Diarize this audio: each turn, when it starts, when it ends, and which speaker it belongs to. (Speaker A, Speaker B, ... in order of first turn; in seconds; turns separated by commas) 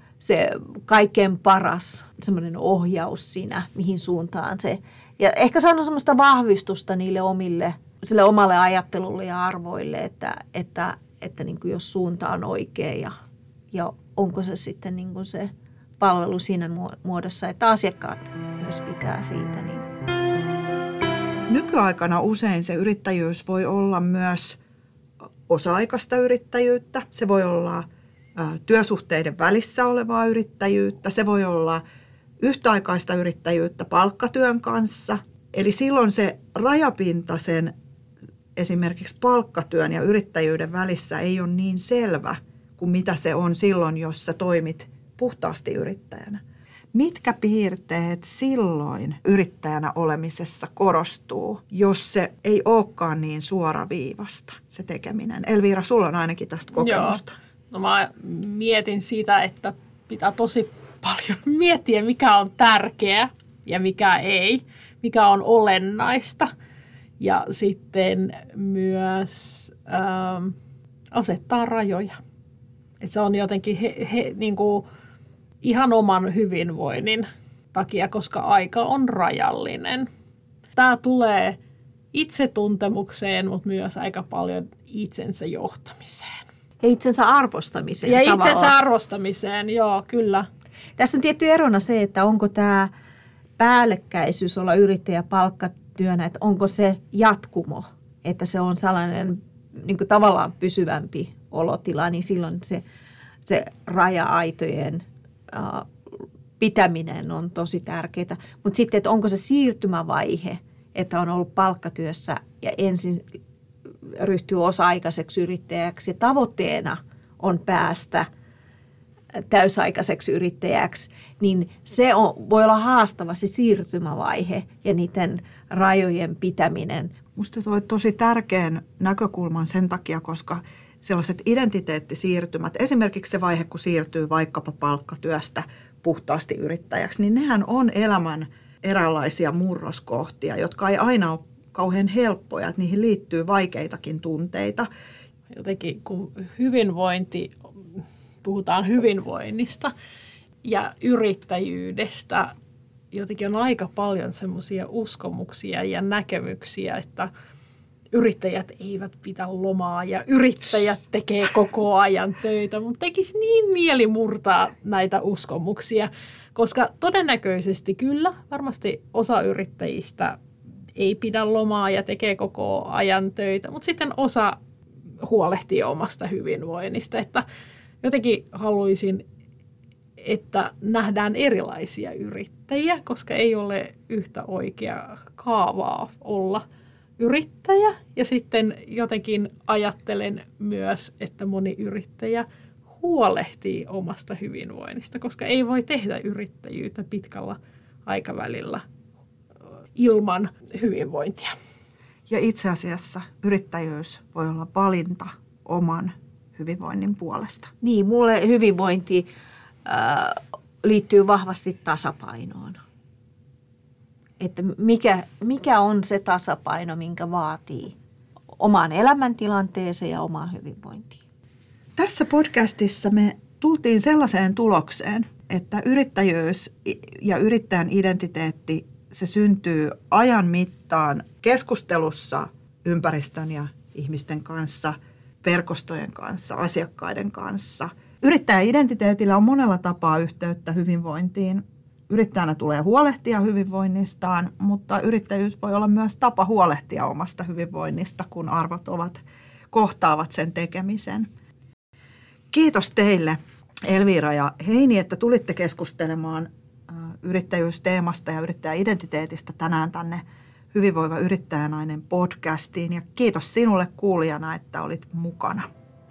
Speaker A: 0.2-13.1, Speaker A: 13.7-19.9, Speaker B: 21.5-24.6, Speaker B: 25.5-31.8, Speaker B: 32.4-37.7, Speaker B: 38.5-46.4, Speaker B: 46.9-57.3, Speaker C: 56.8-66.5, Speaker C: 67.2-70.5, Speaker C: 71.1-72.2, Speaker C: 73.0-74.8, Speaker C: 75.6-80.1, Speaker C: 80.8-81.6, Speaker C: 82.1-86.4, Speaker A: 86.8-88.8, Speaker C: 88.0-90.5, Speaker A: 91.0-92.9, Speaker A: 93.6-102.8, Speaker A: 103.4-105.9, Speaker A: 106.6-113.2, Speaker A: 114.1-118.3, Speaker A: 119.3-127.1, Speaker B: 127.3-144.9, Speaker C: 145.5-149.9, Speaker C: 150.6-152.5, Speaker C: 153.1-157.3, Speaker C: 158.1-170.4, Speaker C: 170.9-174.6, Speaker C: 175.2-177.4, Speaker C: 178.0-179.2, Speaker C: 180.2-186.6, Speaker C: 187.2-198.8, Speaker C: 199.9-201.5, Speaker B: 202.3-207.7, Speaker A: 207.8-209.3, Speaker A: 209.8-212.8, Speaker A: 214.4-217.9, Speaker A: 218.6-221.2, Speaker B: 221.9-249.2, Speaker B: 249.7-251.3, Speaker B: 252.5-265.7